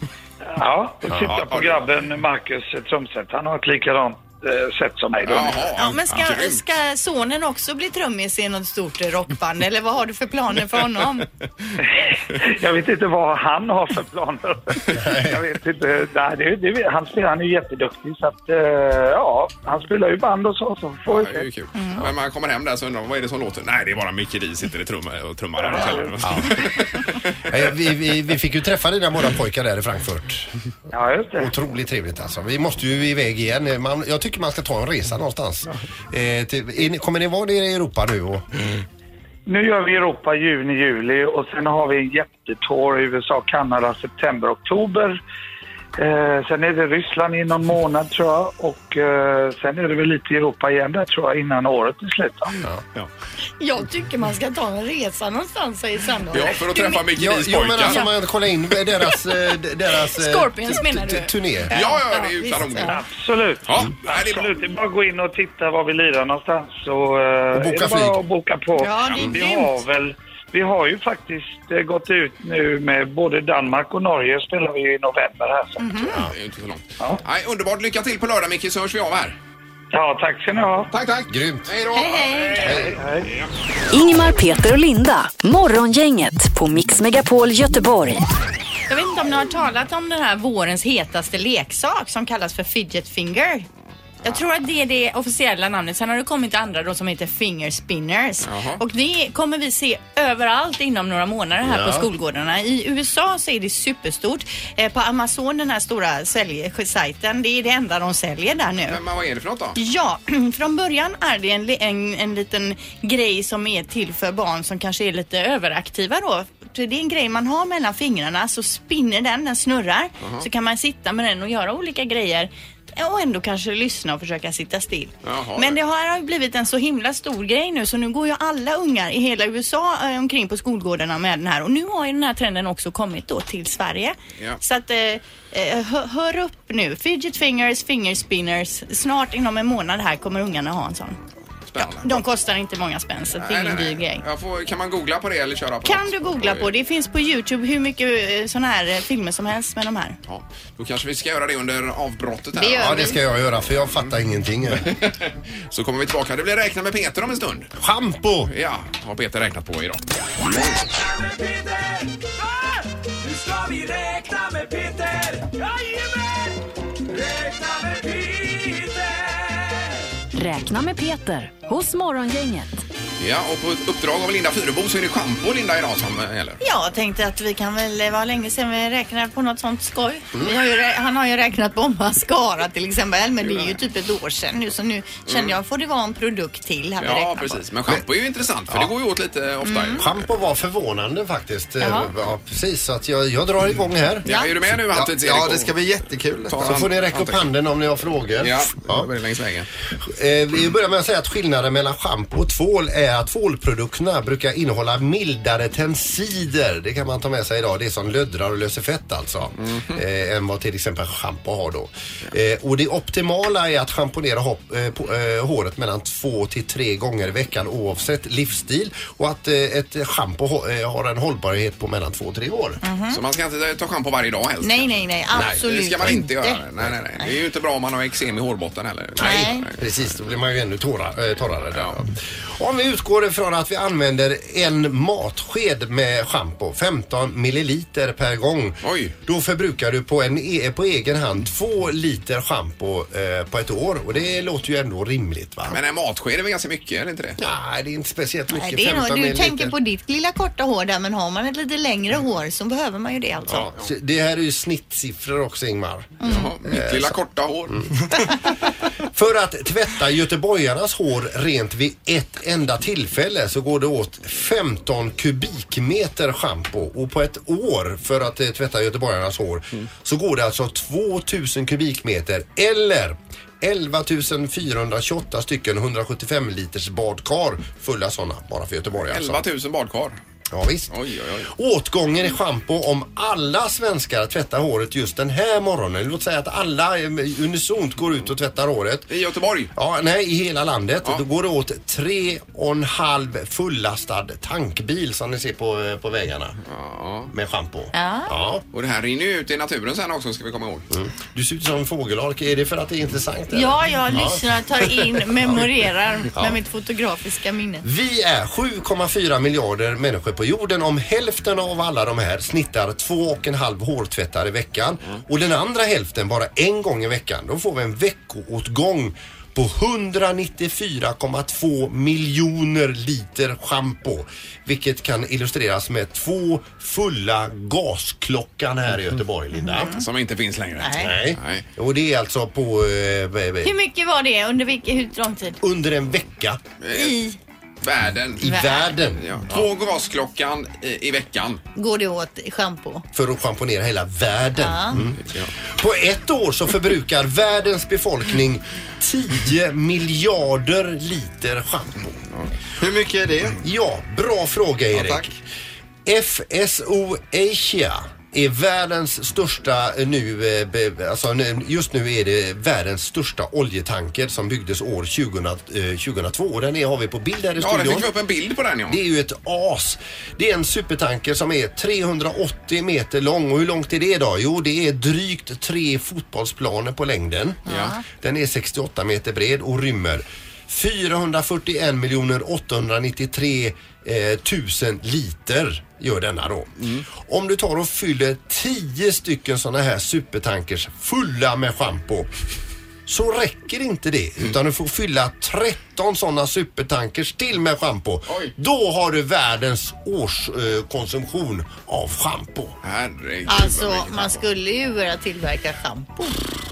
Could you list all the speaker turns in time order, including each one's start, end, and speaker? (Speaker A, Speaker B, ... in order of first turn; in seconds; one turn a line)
Speaker A: 0.4-5.7
Speaker B: 1.3-1.9
Speaker B: 5.3-6.6
Speaker C: 5.8-11.3
Speaker A: 11.8-21.5
Speaker D: 15.0-15.4
Speaker B: 21.1-27.6
Speaker A: 25.6-26.1
Speaker D: 26.2-26.6
Speaker D: 27.5-30.5
Speaker A: 30.9-31.5
Speaker D: 31.4-38.4
Speaker A: 39.5-45.2
Speaker A: 46.0-52.5
Speaker C: 53.6-57.0
Speaker B: 56.3-58.0
Speaker D: 57.1-61.7
Speaker C: 60.1-63.0
Speaker B: 61.7-63.0
Speaker A: 62.9-76.0
Speaker B: 63.7-64.6
Speaker D: 67.5-68.2
Speaker C: 68.8-69.8
Speaker C: 75.8-76.2
Speaker B: 76.3-79.4
Speaker A: 79.9-80.9
Speaker B: 80.9-82.8
Speaker D: 81.3-81.7
Speaker C: 81.9-82.8
Speaker D: 82.6-83.0
Speaker A: 82.9-83.3
Speaker E: 83.9-88.2
Speaker C: 88.9-93.7
Speaker C: 94.2-109.0
Speaker B: 98.5-98.8
Speaker D: 101.6-102.1
Speaker B: 108.9-109.8
Speaker C: 109.8-141.2
Speaker B: 125.2-125.8
Speaker B: 141.7-142.2
Speaker C: 141.8-144.2
Speaker B: 143.4-146.7
Speaker C: 145.8-150.2
Speaker B: 150.3-153.1
Speaker C: 152.6-153.2
Speaker D: 152.8-154.9
Speaker B: 153.9-154.1
Speaker B: 154.8-157.7
Speaker D: 157.8-158.5
Speaker B: 158.5-160.0
Speaker F: 160.9-169.9
Speaker E: 170.3-172.7
Speaker B: 173.2-176.6
Speaker C: 176.6-187.6
Speaker B: 183.4-183.8
Speaker B: 185.3-185.6
Speaker B: 187.0-190.2
Speaker C: 189.7-190.0
Speaker D: 190.0-194.3
Speaker C: 191.8-192.1
Speaker B: 194.2-195.7
Speaker C: 194.2-194.6
Speaker G: 194.8-196.8
Speaker B: 196.5-197.5
Speaker D: 196.6-199.1
Speaker B: 198.4-199.7
Speaker D: 200.0-222.8
Speaker B: 209.6-210.0
Speaker C: 222.8-223.2
Speaker B: 223.1-229.9
Speaker C: 224.6-226.6
Speaker D: 229.2-245.8
Speaker C: 229.2-229.7
Speaker B: 238.8-239.2
Speaker B: 245.7-247.4
Speaker D: 247.4-249.8
Speaker C: 248.5-253.7
Speaker B: 253.5-253.8
Speaker D: 253.7-257.2
Speaker C: 256.2-256.5
Speaker B: 256.3-257.9
Speaker D: 259.1-279.4
Speaker B: 279.1-280.2
Speaker D: 280.5-280.9
Speaker B: 280.9-281.5
Speaker D: 281.5-289.1
Speaker B: 289.1-289.7
Speaker D: 289.8-296.6
Speaker B: 296.7-297.3
Speaker D: 297.3-298.6
Speaker C: 297.9-298.4
Speaker B: 298.7-300.9
Speaker D: 300.9-304.4
Speaker C: 303.5-307.9
Speaker D: 307.8-329.9
Speaker C: 329.8-330.0
Speaker B: 329.9-331.6
Speaker C: 330.8-331.1
Speaker D: 331.0-333.7
Speaker C: 333.6-335.6
Speaker D: 335.6-336.6
Speaker B: 336.8-337.2
Speaker C: 336.9-337.4
Speaker B: 337.8-338.5
Speaker D: 338.4-339.6
Speaker C: 338.5-338.9
Speaker B: 339.1-341.6
Speaker C: 341.8-343.0
Speaker D: 343.1-352.2
Speaker C: 344.6-345.0
Speaker B: 345.2-345.5
Speaker G: 352.8-353.6
Speaker D: 353.6-355.4
Speaker G: 354.9-355.3
Speaker D: 356.1-368.1
Speaker B: 367.6-369.0
Speaker D: 368.9-377.6
Speaker C: 377.7-378.0
Speaker B: 377.7-378.0
Speaker D: 378.1-392.3
Speaker D: 393.1-402.8
Speaker B: 402.8-404.4
Speaker C: 403.5-406.4